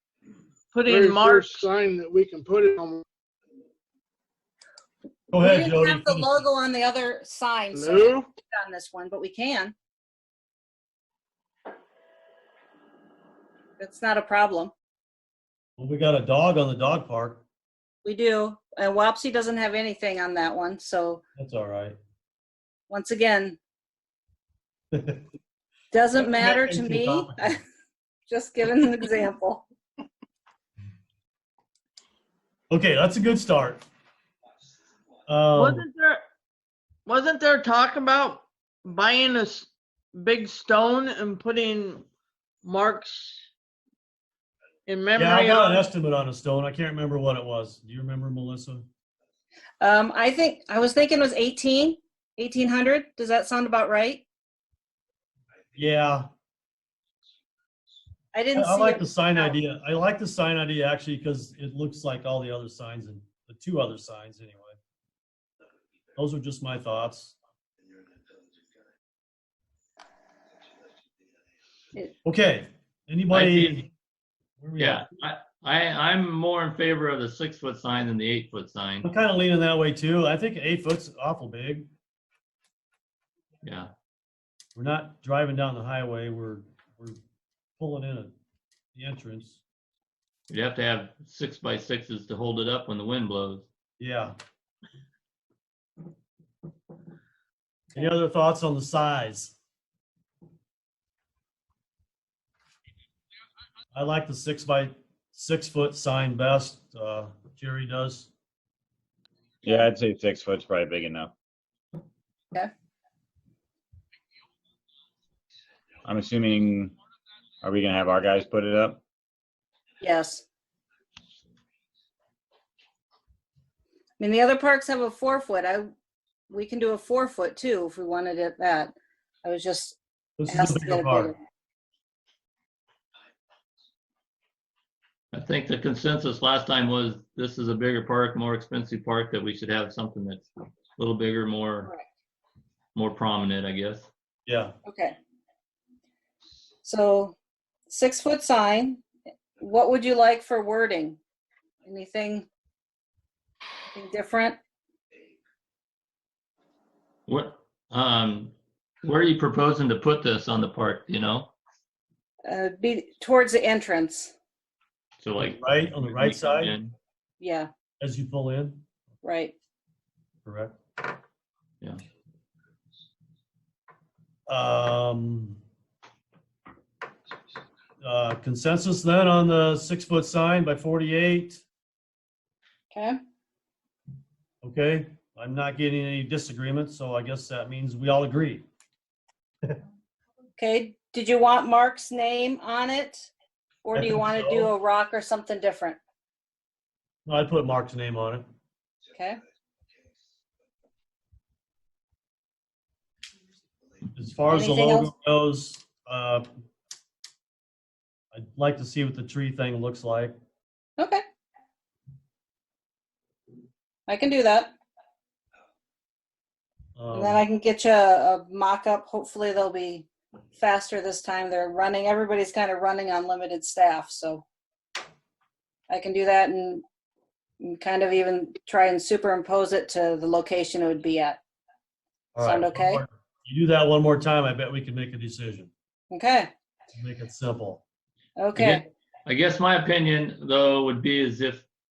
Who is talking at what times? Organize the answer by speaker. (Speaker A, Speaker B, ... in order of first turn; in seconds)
Speaker A: 0.7-1.7, 35.5-36.2, 37.0-42.0, 42.6-43.4, 44.9-45.9
Speaker B: 0.8-3.0, 7.7-8.3
Speaker C: 5.3-6.4, 15.8-17.4, 21.4-22.0, 24.9-25.2, 26.1-27.6, 32.7-33.8, 35.3-35.8, 45.1-48.8, 55.7-56.3, 58.5-64.8, 66.2-67.4, 72.2-73.9, 74.6-75.1, 79.0-81.9, 84.8-87.2, 87.8-88.3, 88.9-89.6, 94.0-94.3, 97.9-99.5, 103.9-108.3, 130.4-131.3, 144.4-144.7, 165.4-166.8, 168.0-168.8, 170.4-170.7, 174.5-175.6, 178.0-181.6, 184.6-188.7, 193.9-194.7, 197.2-198.4, 204.1-206.4, 208.3-210.3, 216.9-217.4, 232.3-235.7, 236.9-237.8
Speaker D: 5.4-9.7, 13.8-14.7, 18.0-21.2, 22.9-23.6, 25.9-27.6, 28.3-29.6, 49.8-54.2, 58.3-59.5, 120.0-120.4, 124.2-125.9, 126.5-131.4, 144.8-145.2, 146.8-147.3, 147.9-149.0, 149.6-151.2, 151.8-152.5, 153.9-154.6, 162.4-164.3, 167.4-167.7, 169.2-169.5, 182.9-183.2, 190.6-193.3, 193.8-196.0, 204.5-205.1, 214.1-214.7, 217.1-224.4, 225.9-226.8, 227.6-231.4, 232.4-233.0, 236.1-236.5, 238.4-238.8
Speaker E: 73.3-73.8, 74.8-79.1, 83.6-83.9, 90.5-93.7, 135.3-141.9, 142.9-144.1, 157.3-161.5, 165.2-166.9, 238.6-241.7
Speaker F: 109.6-111.3, 116.0-116.9, 117.6-119.0